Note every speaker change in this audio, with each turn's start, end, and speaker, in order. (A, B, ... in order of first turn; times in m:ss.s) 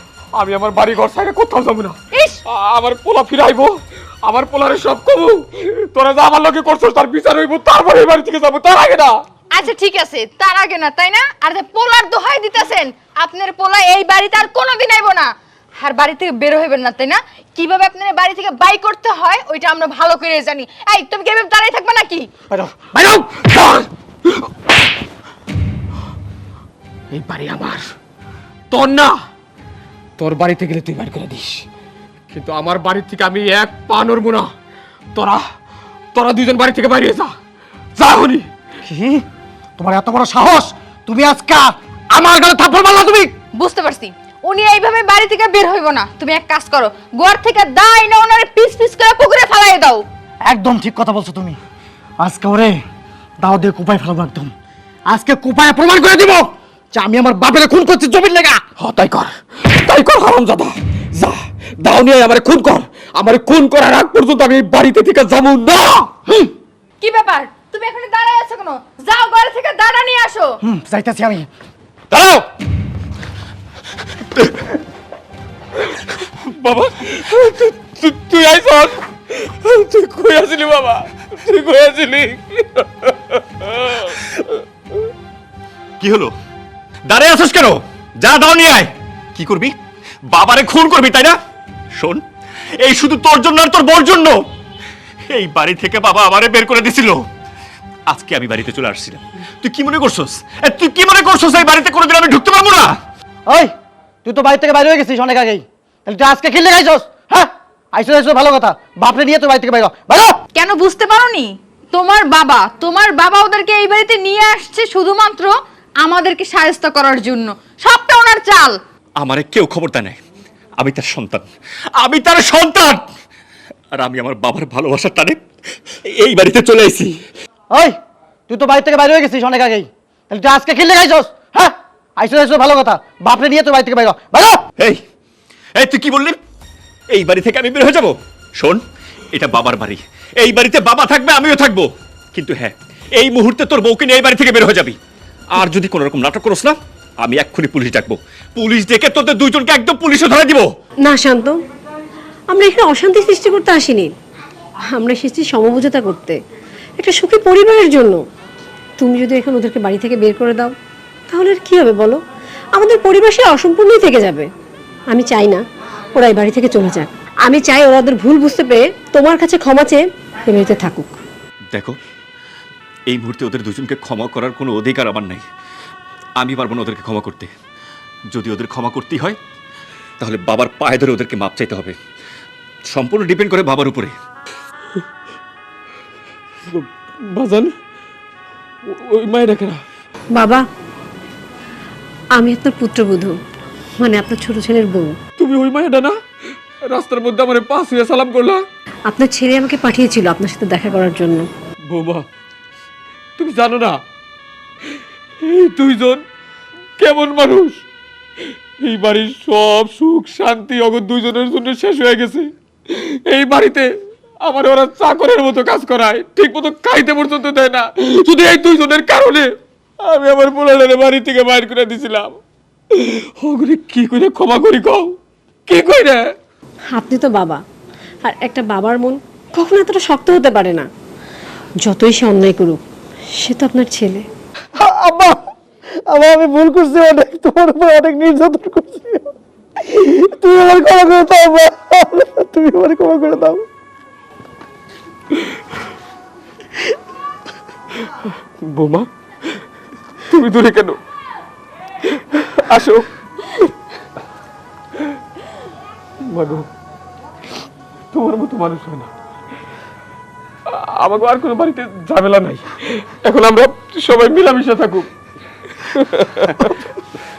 0:00.3-0:09.2 A
0:02.1-0:02.4 B
0:09.5-0:22.3 B
0:22.5-0:23.0 C
0:22.9-0:24.5 A
0:27.1-0:27.9 A
0:28.7-0:29.2 A
0:30.2-0:31.6 A
0:32.3-0:34.5 A
0:35.1-0:35.4 A
0:36.1-0:37.3 A
0:38.0-0:38.5 A
0:38.8-0:39.2 C
0:39.8-0:43.3 C
0:43.6-0:50.0 B
0:50.4-0:51.6 C
0:52.2-0:52.8 C
0:53.4-0:54.5 C
0:55.1-0:58.6 C
0:58.8-1:06.1 A
1:07.0-1:10.6 B
1:10.6-1:11.5 C
1:15.8-1:25.1 A
1:26.0-1:26.3 D
1:27.1-1:29.7 D
1:30.3-1:31.4 D
1:31.9-1:32.2 D
1:32.8-1:34.4 D
1:35.3-1:37.3 D
1:38.1-1:43.0 D
1:44.2-1:50.4 C
1:50.5-1:58.8 B
1:59.2-2:00.2 D
2:00.8-2:03.0 D
2:03.9-2:05.4 D
2:06.0-2:07.2 D
2:07.7-2:08.0 C
2:08.5-2:14.7 C
2:15.7-2:16.4 D
2:17.1-2:25.0 D
2:25.5-2:30.7 D
2:31.0-2:31.6 E
2:32.5-2:34.1 E
2:34.9-2:36.4 E
2:37.0-2:38.2 E
2:39.0-2:40.7 E
2:41.3-2:42.2 E
2:42.7-2:44.5 E
2:45.1-2:45.6 E
2:46.1-2:51.2 E
2:51.7-2:52.0 D
2:53.1-2:55.4 D
2:56.4-2:57.5 D
2:58.3-2:59.4 D
3:00.2-3:02.0 D
3:02.9-3:04.1 D
3:06.6-3:07.7 A
3:08.8-3:09.8 A
3:10.3-3:10.6 E
3:12.4-3:13.3 E
3:14.0-3:15.2 E
3:15.4-3:16.2 A
3:16.9-3:18.6 A
3:19.1-3:21.5 E
3:21.9-3:22.2 A
3:23.4-3:24.0 A
3:24.9-3:26.2 A
3:27.0-3:27.8 A
3:28.8-3:33.9 A
3:34.4-3:39.5 A
3:40.0-3:42.4 A
3:42.9-3:45.2 A
3:45.7-3:46.3 A
3:46.9-3:47.6 E
3:48.2-3:50.9 E
3:51.8-3:52.8 E
3:53.4-3:54.2 E
3:54.8-3:55.4 C
3:56.1-4:03.6 C
4:08.6-4:09.6 A
4:10.3-4:11.0 A
4:12.0-4:13.7 A
4:16.2-4:16.6 A
4:18.1-4:19.1 A
4:20.7-4:25.1 A
4:25.8-4:26.9 A